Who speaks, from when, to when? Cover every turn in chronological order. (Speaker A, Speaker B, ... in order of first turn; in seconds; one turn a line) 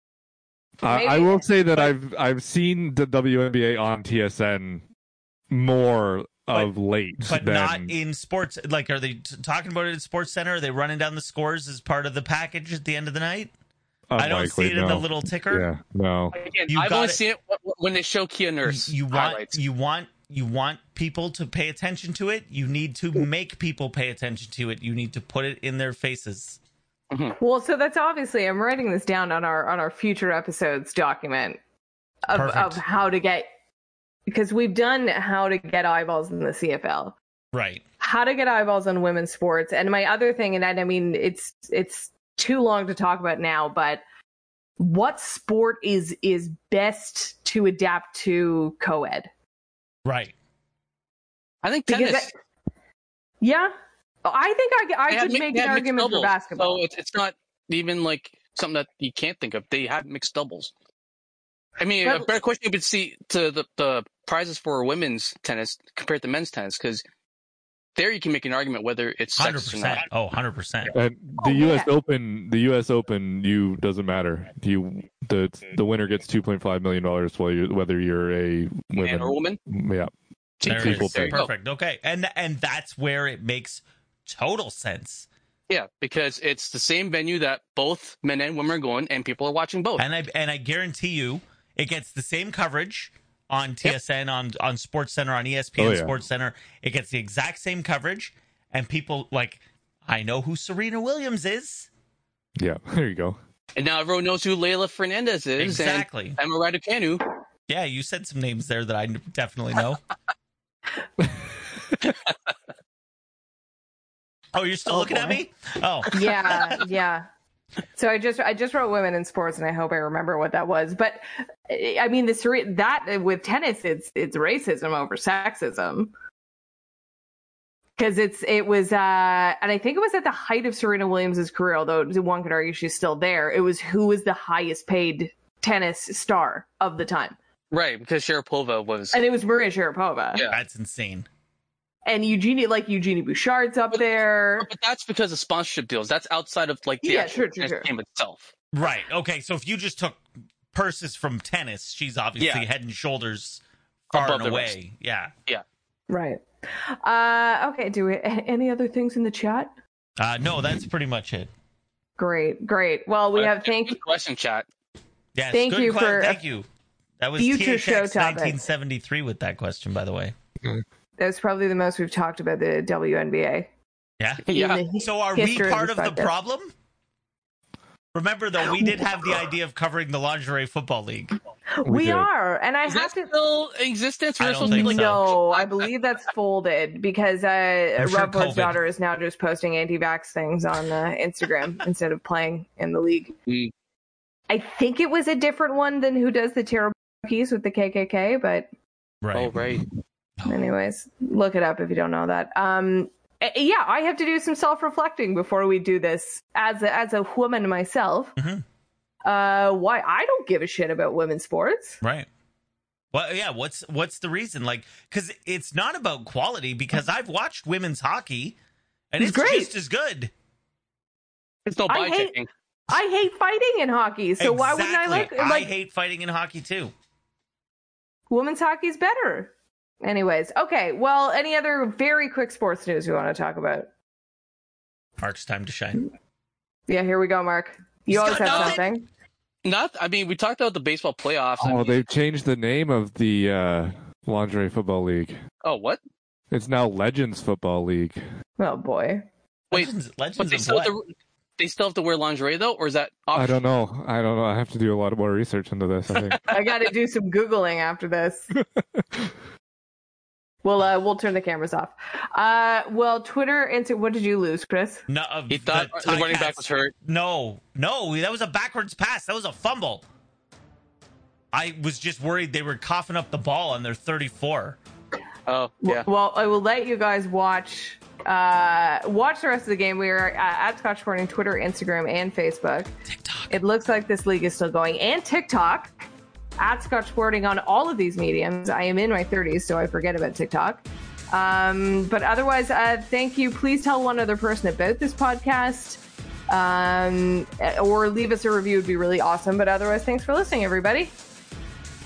Speaker A: 0.8-4.8
Speaker B: 0.9-1.9
Speaker A: 5.5-7.9
Speaker C: 7.2-13.5
Speaker A: 14.1-16.4
Speaker C: 14.2-15.7
Speaker D: 16.4-19.6
Speaker C: 16.7-17.2
Speaker C: 18.7-26.6
Speaker D: 27.1-27.4
Speaker B: 27.4-31.6
Speaker B: 32.3-33.5
Speaker C: 32.3-32.8
Speaker B: 34.3-37.2
Speaker C: 37.5-37.8
Speaker B: 38.0-44.0
Speaker B: 44.8-49.3
Speaker C: 50.0-50.4
Speaker D: 51.6-52.3
Speaker B: 51.9-52.4
Speaker B: 53.4-53.7
Speaker B: 54.2-56.8
Speaker D: 55.1-60.7
Speaker D: 61.8-67.0
Speaker B: 62.0-62.3
Speaker D: 68.0-70.0
Speaker C: 69.4-70.9
Speaker A: 70.9-80.1
Speaker B: 71.4-71.9
Speaker D: 79.0-79.6
Speaker D: 80.6-81.5
Speaker A: 80.6-81.4
Speaker C: 80.7-85.3
Speaker D: 85.7-90.0
Speaker C: 90.0-101.9
Speaker A: 95.8-96.1
Speaker A: 102.6-103.4
Speaker D: 103.8-107.3
Speaker C: 105.6-106.4
Speaker C: 107.7-110.0
Speaker D: 112.0-112.3
Speaker C: 114.5-116.8
Speaker B: 114.9-115.4
Speaker B: 116.1-117.3
Speaker B: 118.0-126.1
Speaker B: 128.0-137.4
Speaker D: 137.7-139.2
Speaker B: 139.1-140.4
Speaker C: 140.5-141.3
Speaker B: 142.1-144.7
Speaker D: 144.6-148.5
Speaker B: 147.0-147.9
Speaker C: 148.7-155.3
Speaker D: 152.4-152.7
Speaker D: 154.1-154.7
Speaker B: 156.1-159.7
Speaker C: 160.2-161.5
Speaker B: 162.2-164.0
Speaker D: 163.3-164.7
Speaker C: 165.3-166.7
Speaker B: 165.5-166.4
Speaker C: 167.2-170.3
Speaker B: 167.4-168.6
Speaker B: 171.2-173.7
Speaker C: 174.2-176.7
Speaker D: 174.5-174.8
Speaker B: 174.5-176.3
Speaker C: 178.1-181.4
Speaker B: 181.7-183.3
Speaker A: 181.9-182.3
Speaker D: 182.9-185.9
Speaker C: 184.4-185.3
Speaker B: 184.6-193.4
Speaker C: 188.0-188.8
Speaker B: 194.5-198.7
Speaker C: 199.2-199.6
Speaker D: 199.3-199.9
Speaker C: 200.4-200.7
Speaker B: 200.4-208.3
Speaker C: 208.4-208.6
Speaker B: 209.2-212.0
Speaker C: 212.0-212.3
Speaker C: 213.1-218.6
Speaker C: 219.1-220.3
Speaker B: 219.2-219.7
Speaker D: 221.7-222.5
Speaker B: 221.9-222.4
Speaker B: 222.9-225.7
Speaker C: 224.4-226.9
Speaker B: 228.3-233.9
Speaker C: 235.2-236.1
Speaker B: 236.9-239.1
Speaker C: 238.1-238.9
Speaker D: 238.2-238.8
Speaker D: 239.7-242.0
Speaker A: 241.6-245.4
Speaker D: 245.6-246.0
Speaker A: 246.5-248.2
Speaker B: 248.6-249.3
Speaker D: 249.7-253.7
Speaker C: 249.7-250.9
Speaker A: 253.3-256.4
Speaker D: 256.1-256.6
Speaker B: 256.5-258.5
Speaker A: 258.8-259.3
Speaker B: 260.6-265.1
Speaker C: 265.1-270.1
Speaker D: 265.5-266.9
Speaker C: 271.5-274.8
Speaker D: 275.5-276.1
Speaker B: 275.8-282.9
Speaker C: 283.1-283.5
Speaker B: 283.5-301.1